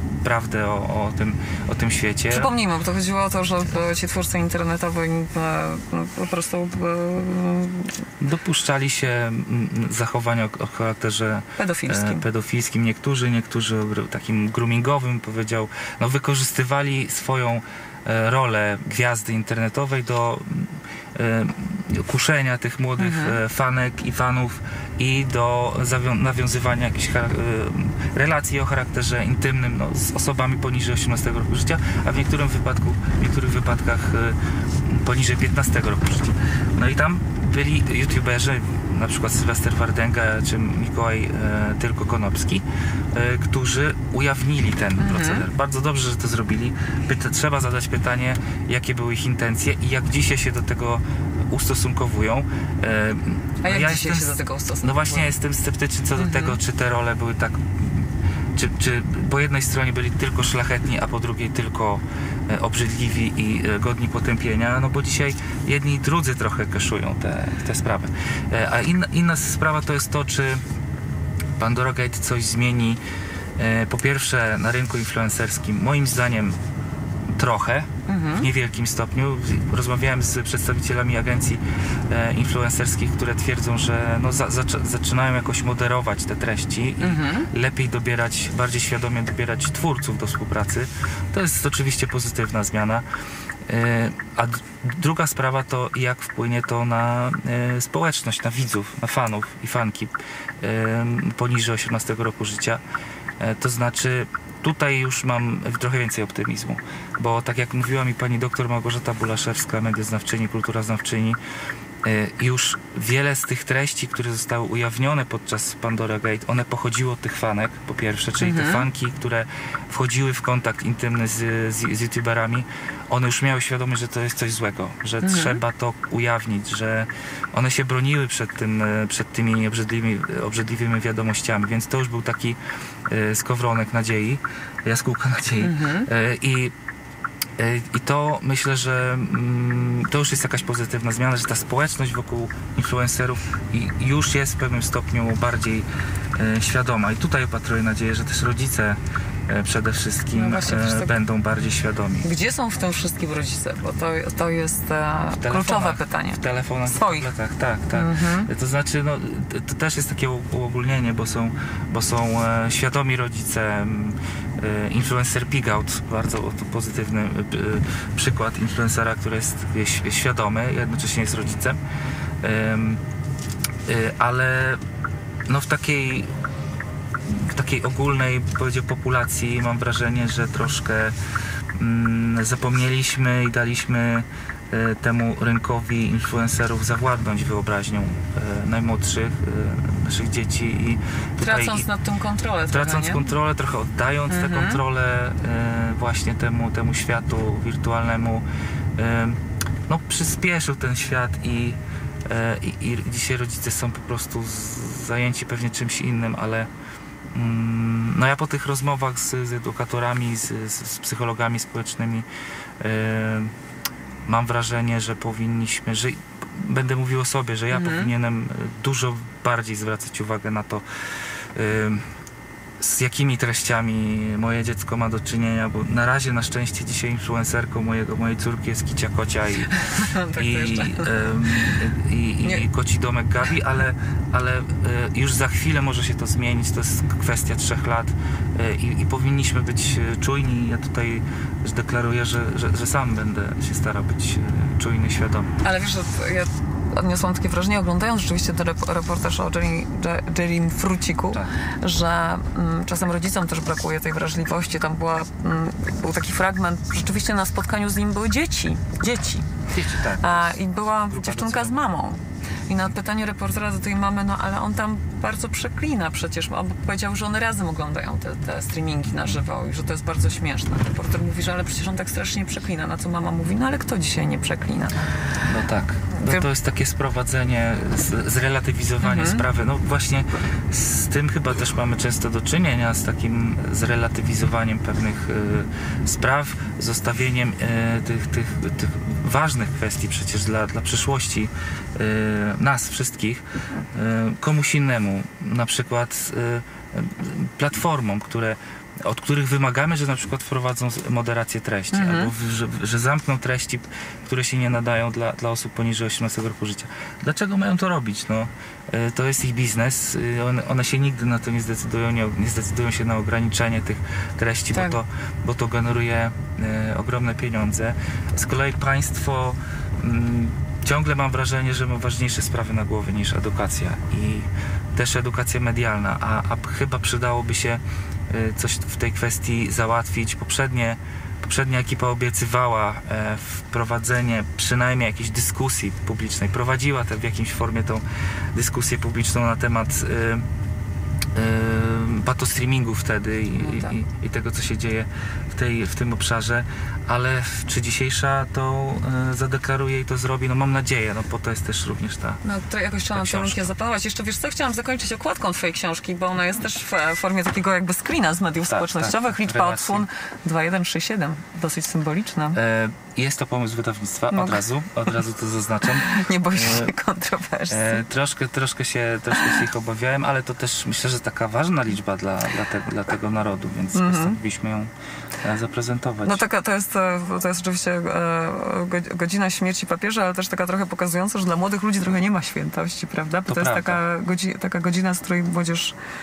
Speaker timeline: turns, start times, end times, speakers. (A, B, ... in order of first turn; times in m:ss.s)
0:00.2-0:02.5 A
0:02.3-0:08.0 B
0:08.2-1:10.6 A
0:11.6-0:12.2 B
0:23.0-0:23.4 B
0:45.0-0:45.5 B
0:53.6-0:55.3 B
0:56.2-0:56.6 B
1:11.6-1:13.0 A
1:13.6-1:16.6 A
1:17.3-1:33.0 A
1:18.1-1:18.5 B
1:27.0-1:27.5 B
1:33.7-1:42.8 A
1:43.4-1:51.4 A
1:52.0-2:16.7 A
1:58.4-1:58.9 B
2:05.2-2:05.6 B
2:15.6-2:16.1 B
2:17.6-2:32.3 A
2:30.3-2:31.2 B
2:32.2-2:37.3 B
2:35.4-2:51.8 A
2:37.9-2:38.5 B
2:52.4-2:53.0 A
2:53.9-2:54.8 A
2:55.5-2:56.3 A
2:57.3-3:01.2 A
3:01.8-3:11.9 A
3:11.4-3:13.3 B
3:12.7-3:18.4 A
3:14.3-3:14.8 B
3:19.0-3:26.7 A
3:27.3-3:32.3 A
3:32.8-3:33.5 A
3:34.3-3:40.8 A
3:37.7-3:38.1 B
3:41.6-3:42.0 A
3:42.8-3:49.7 A
3:49.7-3:51.8 B
3:50.4-4:05.5 A
4:05.6-4:19.6 B
4:19.7-4:20.5 A
4:20.2-4:35.0 B
4:21.1-4:21.8 A
4:35.4-5:40.4 A
4:36.2-4:36.4 B
4:39.0-4:39.4 B
5:01.9-5:02.3 B
5:14.7-5:15.0 B
5:41.4-5:52.4 A
5:43.6-5:44.0 B
5:52.4-6:02.6 B
5:53.1-5:53.7 A
5:58.6-6:00.1 A
6:02.5-6:06.9 A
6:04.3-6:04.6 B
6:05.9-6:08.0 B
6:07.7-6:14.9 A
6:13.9-6:14.4 B
6:15.4-6:16.4 A
6:16.2-6:26.0 B
6:23.5-6:24.0 A